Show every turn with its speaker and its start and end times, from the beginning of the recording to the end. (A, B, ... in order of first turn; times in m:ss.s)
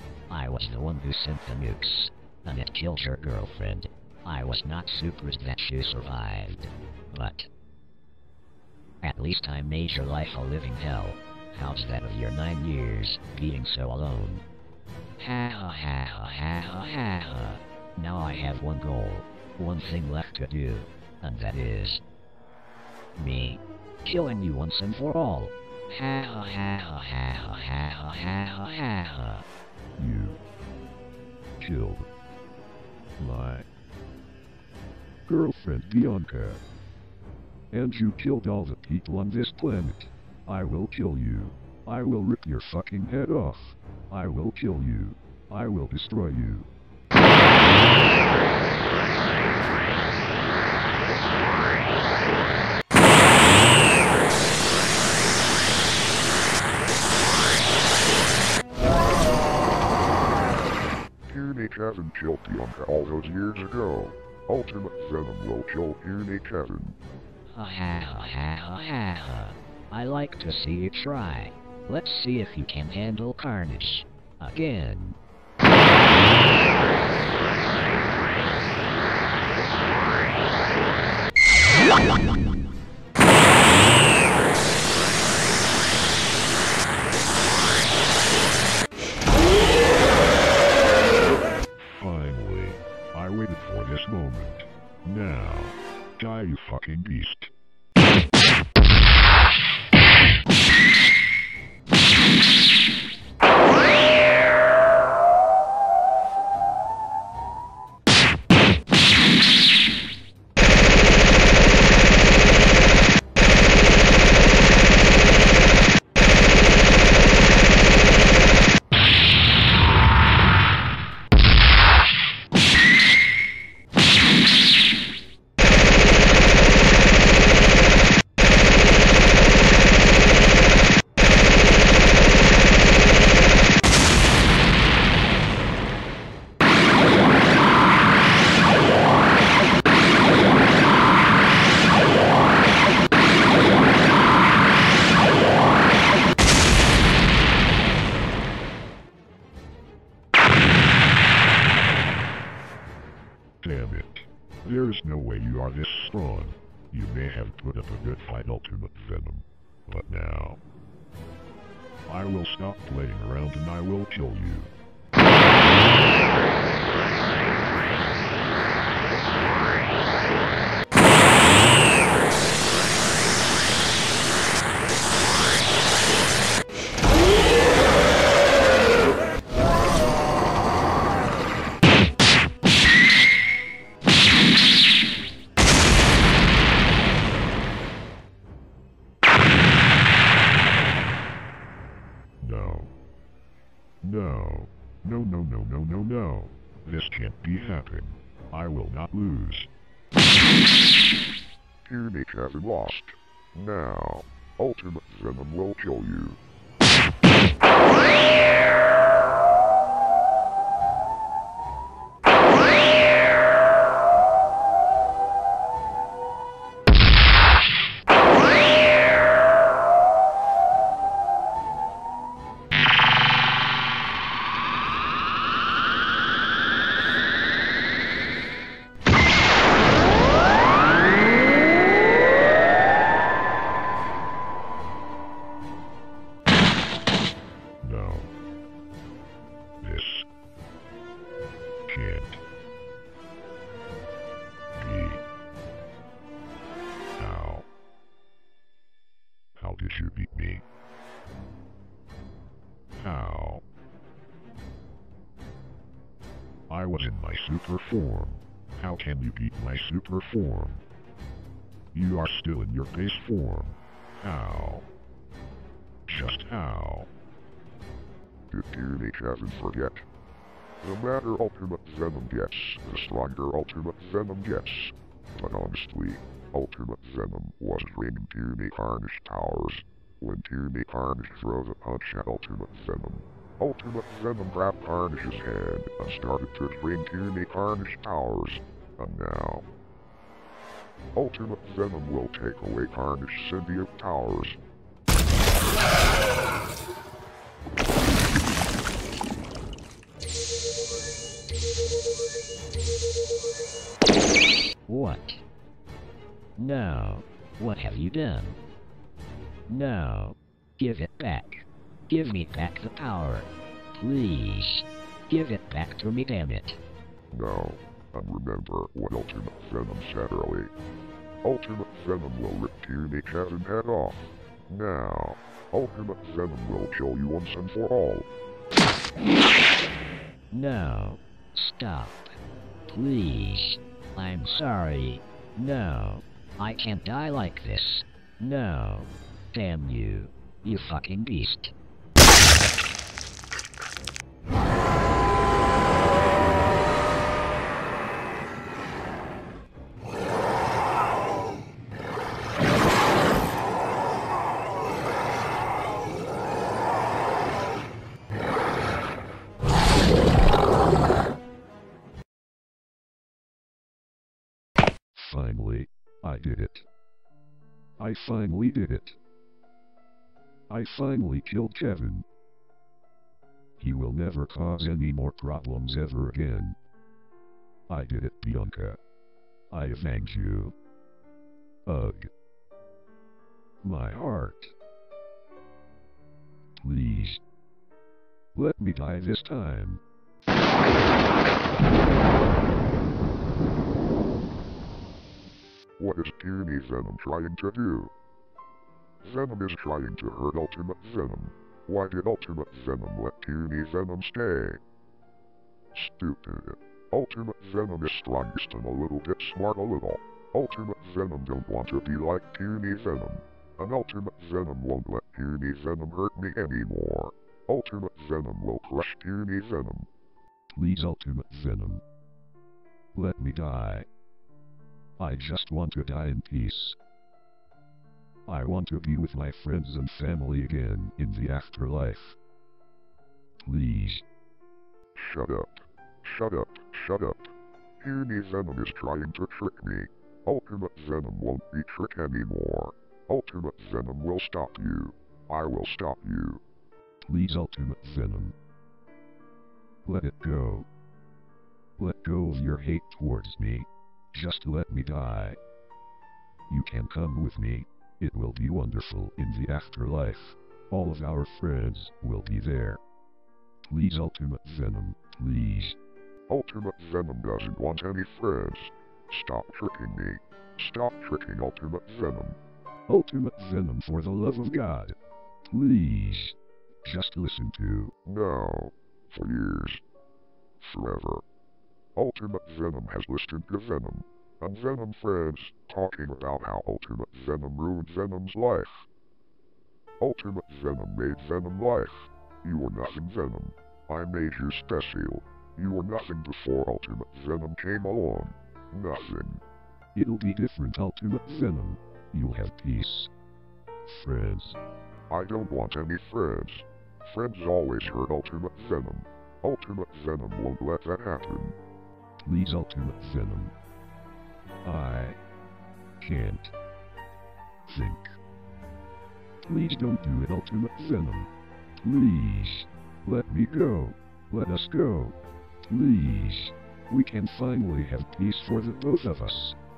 0:00.3-0:07.5 A
0:09.0-0:14.4 A
0:15.2-0:22.0 A
0:23.2-0:29.4 A
0:30.0-0:30.4 B
0:31.6-0:32.1 B
0:33.2-0:33.7 B
0:35.3-0:36.6 B
0:37.7-0:46.7 B
1:01.3-1:07.0 C
1:07.5-1:15.2 A
1:31.8-1:37.5 B
2:33.6-2:40.6 B
2:42.1-2:44.7 B
3:12.4-3:12.9 C
3:14.0-3:14.7 C
3:15.0-3:17.9 B
3:15.3-3:19.7 C
3:18.6-3:19.3 B
3:21.8-3:26.4 C
3:57.8-3:58.3 B
3:59.8-4:00.3 B
4:01.9-4:02.4 B
4:04.8-4:05.2 B
4:07.2-4:07.7 B
4:09.6-4:10.6 B
4:13.0-4:13.6 B
4:16.7-4:18.9 B
4:18.8-4:20.8 C
4:22.0-4:24.8 C
4:26.1-4:27.1 C
4:28.5-4:30.0 C
4:30.8-4:49.7 C
4:51.2-4:54.6 C
5:04.9-5:05.4 A
5:06.6-5:08.6 A
5:09.7-5:16.8 A
5:17.3-5:20.7 C
5:21.4-5:28.3 C
5:30.5-5:32.4 A
5:32.9-5:41.7 A
6:05.1-6:06.9 B
6:08.0-6:09.2 B
6:10.7-6:12.3 B
6:13.8-6:16.8 B
6:17.9-6:19.0 B
6:19.7-6:20.8 B
6:21.9-6:22.3 B
6:23.8-6:24.8 B
6:26.8-6:27.4 B
6:28.6-6:30.0 B
6:36.0-6:38.1 C
6:39.2-6:44.8 C
6:45.9-7:00.1 C
7:00.7-7:02.0 B
7:03.2-7:04.1 B
7:05.2-7:07.0 B
7:08.5-7:12.4 B
7:13.6-7:14.2 B
7:15.2-7:26.6 C
7:27.2-7:28.6 B
7:30.1-7:30.9 B
7:32.0-7:35.6 B
7:36.7-7:43.0 B
7:43.8-7:46.0 B
7:46.5-7:52.6 C
7:53.1-7:55.2 B
7:55.7-7:58.1 B
7:58.1-8:00.0 C
8:00.8-8:01.4 C
8:02.2-8:09.0 C
8:10.2-8:19.6 C
8:20.2-8:23.3 B
8:24.0-8:24.8 B
8:25.3-8:31.8 C
8:32.4-8:33.7 B
8:34.9-8:35.4 B
8:36.2-8:36.8 B
8:37.9-8:38.4 B
8:39.7-8:41.5 B
8:42.0-8:49.8 B